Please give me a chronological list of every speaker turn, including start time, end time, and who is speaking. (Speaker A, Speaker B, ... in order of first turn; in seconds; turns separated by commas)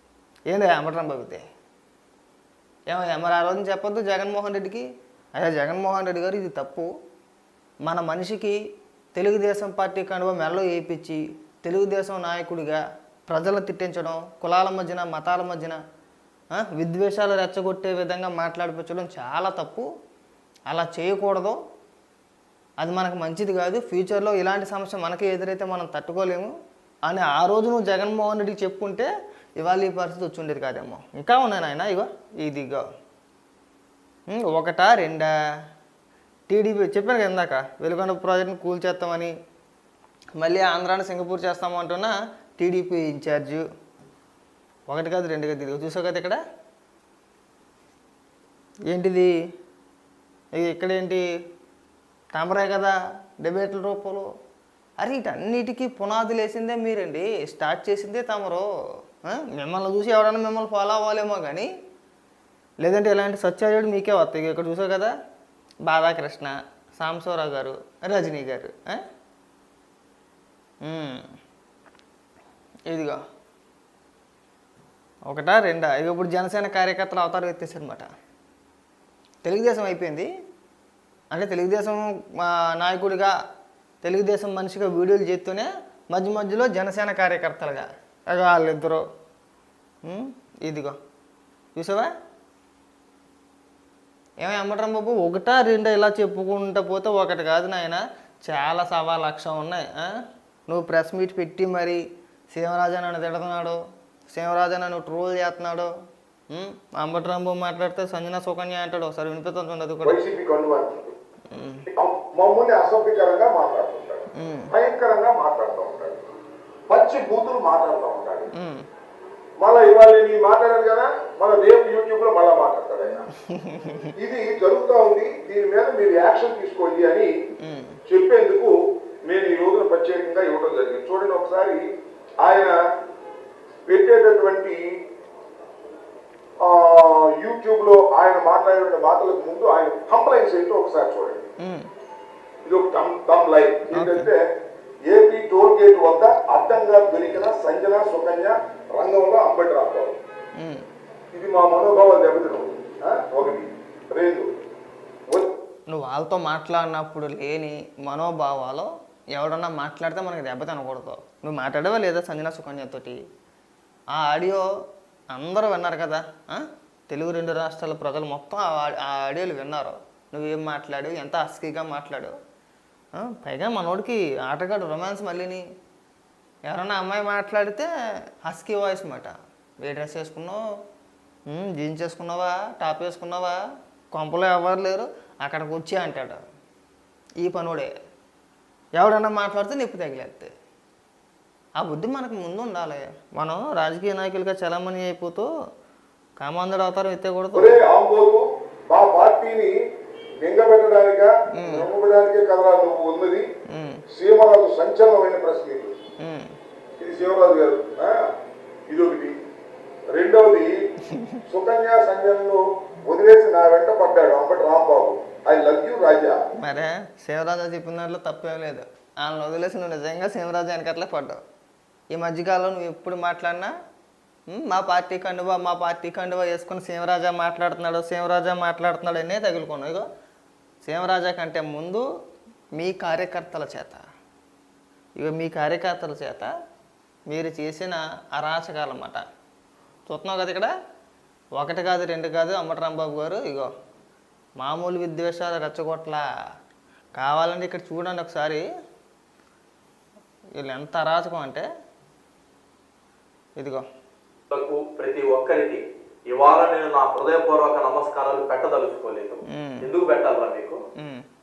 Speaker A: 0.5-1.4, Speaker A: 2.9-4.9, Speaker A: 5.4-6.9, Speaker A: 7.8-8.6, Speaker A: 9.2-15.8, Speaker A: 16.6-19.9, Speaker A: 20.7-21.6, Speaker A: 22.8-26.5, Speaker A: 27.1-32.9, Speaker A: 34.3-35.3, Speaker A: 36.5-39.3, Speaker A: 40.4-43.6, Speaker A: 44.9-46.4, Speaker A: 48.9-49.3, Speaker A: 50.5-51.2, Speaker A: 52.3-54.3, Speaker A: 55.0-58.6, Speaker A: 59.3-61.7, Speaker A: 62.8-65.1, Speaker A: 65.8-69.0, Speaker A: 70.8-71.2, Speaker A: 72.9-73.2, Speaker A: 75.3-78.1, Speaker A: 79.4-80.3, Speaker A: 81.3-83.3, Speaker A: 84.0-89.0, Speaker A: 90.0-91.0, Speaker A: 91.8-92.1, Speaker A: 94.4-100.1, Speaker A: 100.7-102.0, Speaker A: 102.5-103.8, Speaker A: 104.3-105.9, Speaker A: 106.5-110.2, Speaker B: 110.0-111.1, Speaker A: 111.5-111.9, Speaker B: 111.9-116.2, Speaker A: 114.4-114.7, Speaker B: 116.9-118.5, Speaker A: 118.6-118.8, Speaker B: 119.6-123.3, Speaker A: 123.5-124.1, Speaker B: 124.2-127.3, Speaker A: 127.6-128.0, Speaker B: 128.1-128.7, Speaker B: 129.3-131.8, Speaker B: 132.4-132.8, Speaker B: 133.9-134.8, Speaker B: 136.6-141.5, Speaker A: 141.6-141.9, Speaker B: 142.6-144.4, Speaker A: 143.9-144.3, Speaker B: 145.1-150.2, Speaker A: 150.6-150.8, Speaker B: 151.3-154.5, Speaker A: 155.9-163.2, Speaker A: 164.1-164.7, Speaker A: 165.3-172.3, Speaker A: 173.2-175.6, Speaker A: 176.7-177.9, Speaker A: 178.4-180.6, Speaker A: 181.5-183.6, Speaker A: 184.1-186.4, Speaker A: 187.4-187.9, Speaker A: 189.0-190.5, Speaker A: 191.8-195.5, Speaker A: 196.4-197.8, Speaker B: 197.5-199.7, Speaker B: 200.4-203.4, Speaker A: 201.6-201.9, Speaker A: 203.7-204.0, Speaker B: 204.1-205.9, Speaker A: 206.2-206.5, Speaker B: 207.0-208.2, Speaker B: 208.9-209.3, Speaker B: 210.1-210.7, Speaker A: 211.2-211.4, Speaker B: 211.5-216.4, Speaker A: 216.6-221.4, Speaker A: 222.1-223.7, Speaker A: 224.5-230.1, Speaker A: 230.8-232.1, Speaker A: 232.8-234.0, Speaker A: 235.2-236.5, Speaker A: 237.3-239.2, Speaker A: 240.1-240.7, Speaker A: 241.6-243.7, Speaker A: 244.6-246.2, Speaker A: 247.2-248.7, Speaker A: 250.6-251.7, Speaker A: 253.6-253.8, Speaker C: 254.5-260.8, Speaker A: 259.5-259.9, Speaker A: 261.0-261.2